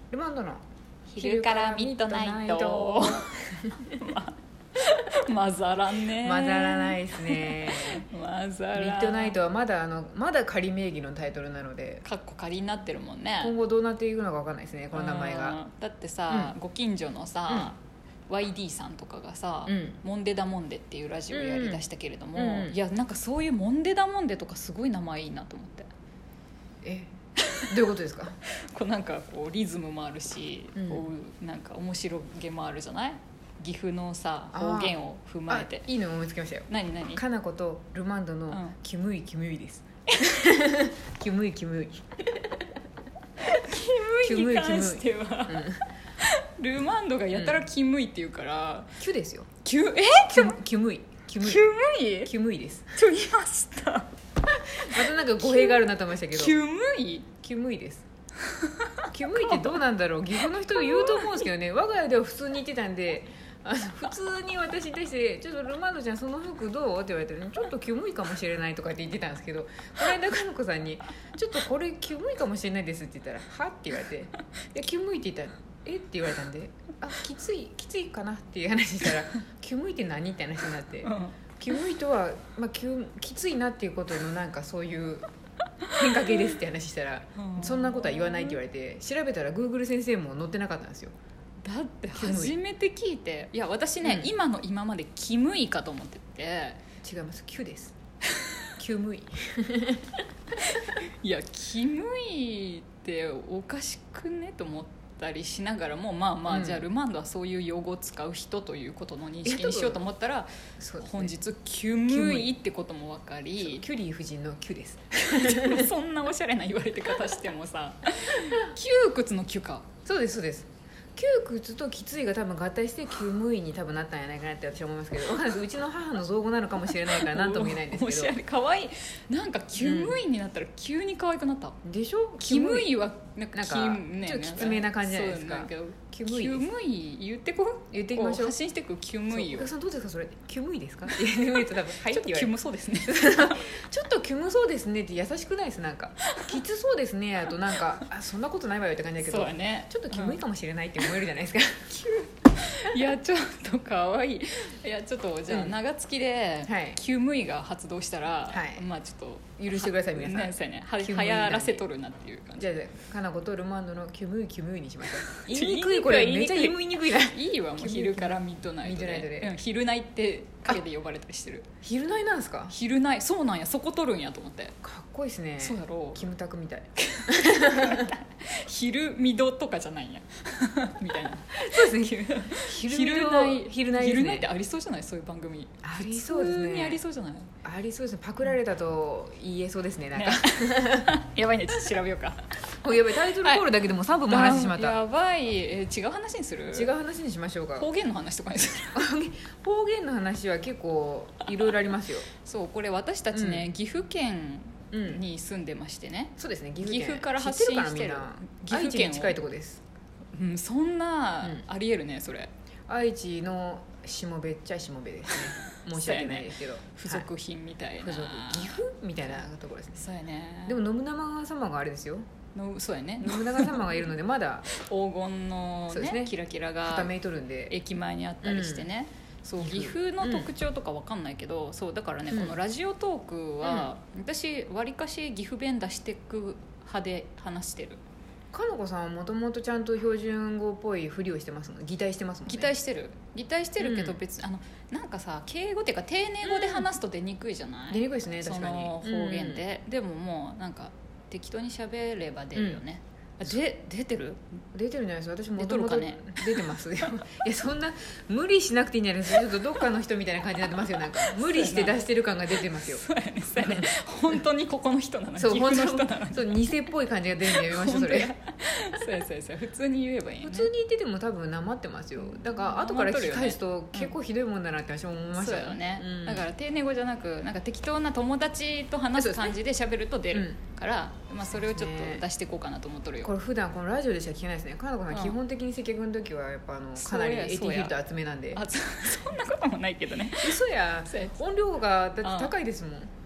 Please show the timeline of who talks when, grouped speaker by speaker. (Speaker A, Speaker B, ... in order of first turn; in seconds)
Speaker A: 0.1-0.6, 1.2-4.0, 6.0-8.1, 8.7-12.0, 13.4-15.6, 16.3-16.5, 19.7-20.0, 21.3-21.8, 22.3-22.8, 26.8-27.1, 27.7-28.4, 30.7-31.0, 34.5-35.0, 35.5-42.0, 44.2-45.8, 47.3-47.6, 49.0-49.5, 50.3-51.6, 52.2-53.0, 54.5-56.6, 57.4-58.0, 59.1-85.2, 85.9-91.1, 92.1-92.5, 94.0-94.3, 97.0-97.9, 98.8-100.2, 106.5-106.8, 109.4-110.0, 110.8-111.3, 112.1-112.5, 113.6-115.9, 120.0-128.3, 129.8-130.2, 131.8-132.9, 133.5-136.7, 137.9-138.6, 139.3-152.0, 155.5-155.8, 156.7-157.0, 158.5-158.8, 159.6-161.8, 162.6-169.5, 171.8-172.7, 174.8-178.1, 181.6-184.5, 185.8-187.0, 187.6-191.1, 192.8-195.0, 196.7-197.9, 198.9-202.3, 203.3-203.7, 204.9-205.2, 206.4-209.8, 212.9-217.3, 218.0-220.1, 220.7-222.2, 223.2-224.7, 225.9-226.3, 226.8-227.7, 228.4-228.9, 229.6-230.5, 232.3-232.6, 233.6-233.9, 238.5-242.7, 243.8-244.2, 246.4-246.9, 247.9-249.6, 252.5-252.8, 254.7-264.4, 265.4-268.3, 270.4-276.5, 279.1-279.6, 280.3-280.6, 281.5-282.2, 283.2-288.6, 290.4-293.1
Speaker B: 1.1-9.4, 12.0-13.5, 14.9-25.9, 27.4-27.8, 28.5-35.9, 36.7-37.2, 40.1-40.5, 43.4-45.6, 46.2-49.0, 49.6-50.5, 51.4-52.3, 52.9-54.1, 55.4-55.8, 56.3-57.3, 58.5-59.8, 60.4-61.4, 81.0-81.4, 85.8-86.4, 87.4-88.5, 91.6-96.8, 100.7-113.8, 115.2-119.9, 126.9-131.7, 132.4-139.7, 141.1-141.4, 142.1-143.8, 146.2-146.6, 147.6-148.0, 149.2-150.4, 151.9-162.7, 165.3-171.7, 172.7-174.7, 175.6-176.2, 177.0-187.5, 190.1-192.5, 194.3-196.9, 197.8-199.1, 202.4-209.4, 210.3-212.5, 215.9-218.8, 220.0-220.8, 222.5-224.1, 224.7-227.1, 227.7-238.0, 242.5-254.4, 255.5-256.7, 261.2-262.0, 262.5-266.9, 267.5-270.7, 272.2-274.1, 275.3-283.3, 285.1-285.4, 286.9-288.0, 288.5-291.3, 292.2-292.5